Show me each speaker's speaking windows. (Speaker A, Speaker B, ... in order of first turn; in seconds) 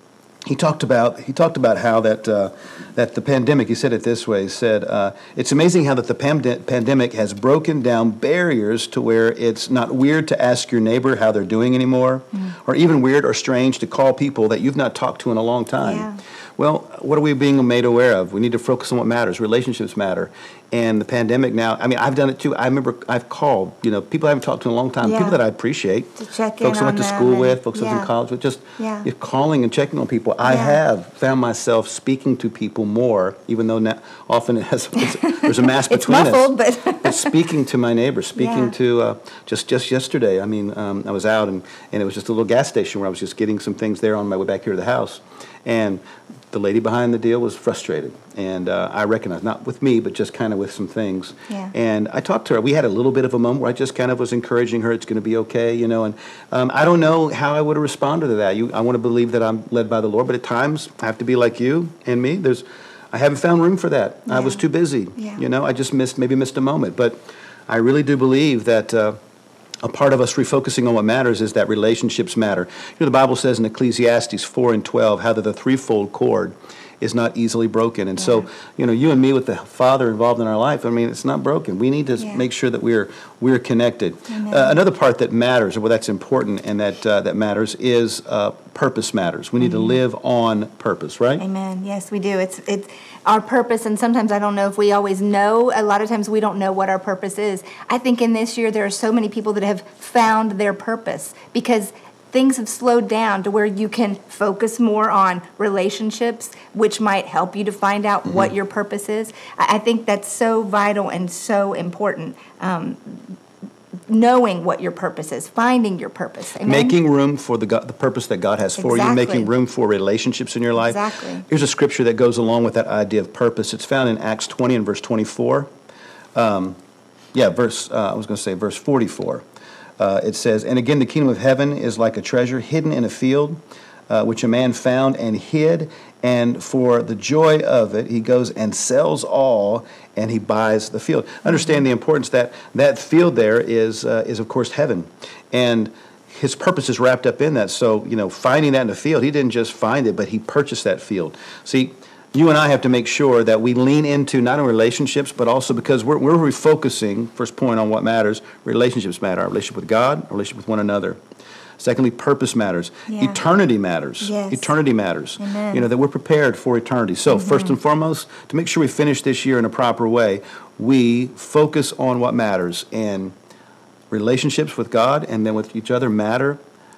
Speaker A: 0.5-69.2, 69.8-91.4, 116.6-125.7, 126.3-126.8, 127.3-129.4, 130.0-161.2, 161.8-173.3, 174.1-176.6
Speaker B: 15.8-16.2, 25.0-25.4, 26.2-28.1, 28.8-29.1, 30.4-30.8, 35.2-37.3, 38.4-38.7, 64.3-64.6, 65.2-65.4, 78.2-78.4, 84.3-84.8, 89.6-90.0, 91.4-113.4, 114.1-117.0, 118.8-119.5, 120.8-121.5, 141.5-141.8, 163.1-163.4, 164.2-164.7, 165.4-165.8, 167.3-167.8